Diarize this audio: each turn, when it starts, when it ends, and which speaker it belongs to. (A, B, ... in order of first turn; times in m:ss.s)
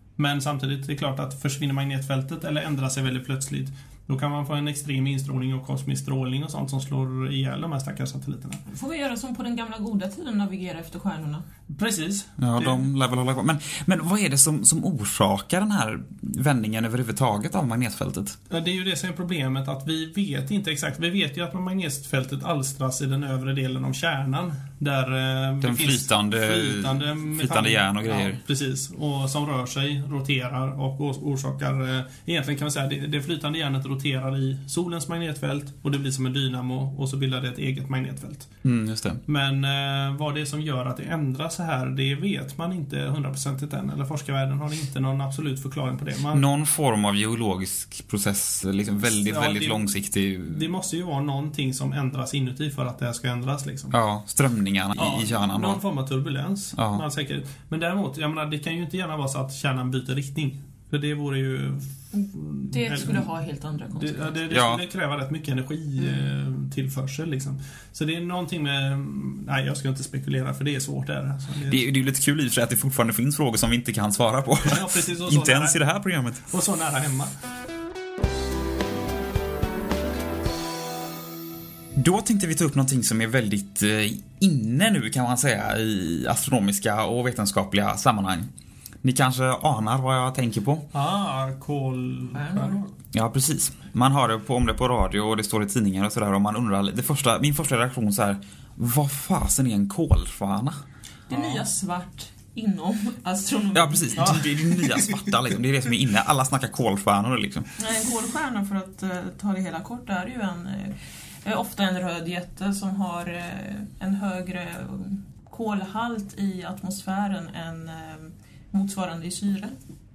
0:00.2-0:08.6 A
0:08.7-0:11.4 B
0:11.7-0:12.8 A
0:12.4-0:18.4 C
0:18.5-0:38.5 A
0:25.6-0:28.4 C
0:38.6-0:39.2 C
0:39.3-0:46.4 A
0:46.3-0:50.6 C
0:49.1-0:54.0 A
0:53.9-0:55.8 C
0:54.9-1:03.2 A
0:56.8-0:57.0 C
1:02.1-1:04.3 B
1:04.0-1:11.8 A
1:04.5-1:04.8 C
1:06.0-1:06.3 B
1:11.7-1:16.5 C
1:14.6-1:15.8 A
1:16.5-1:17.3 A
1:22.0-1:28.5 C
1:29.0-1:30.9 C
1:30.9-1:32.9 A
1:32.3-1:32.8 B
1:33.1-1:40.8 C
1:41.3-1:44.4 B
1:41.3-1:41.6 A
1:43.7-1:47.7 C
1:44.2-1:45.3 A
1:47.8-1:59.8 B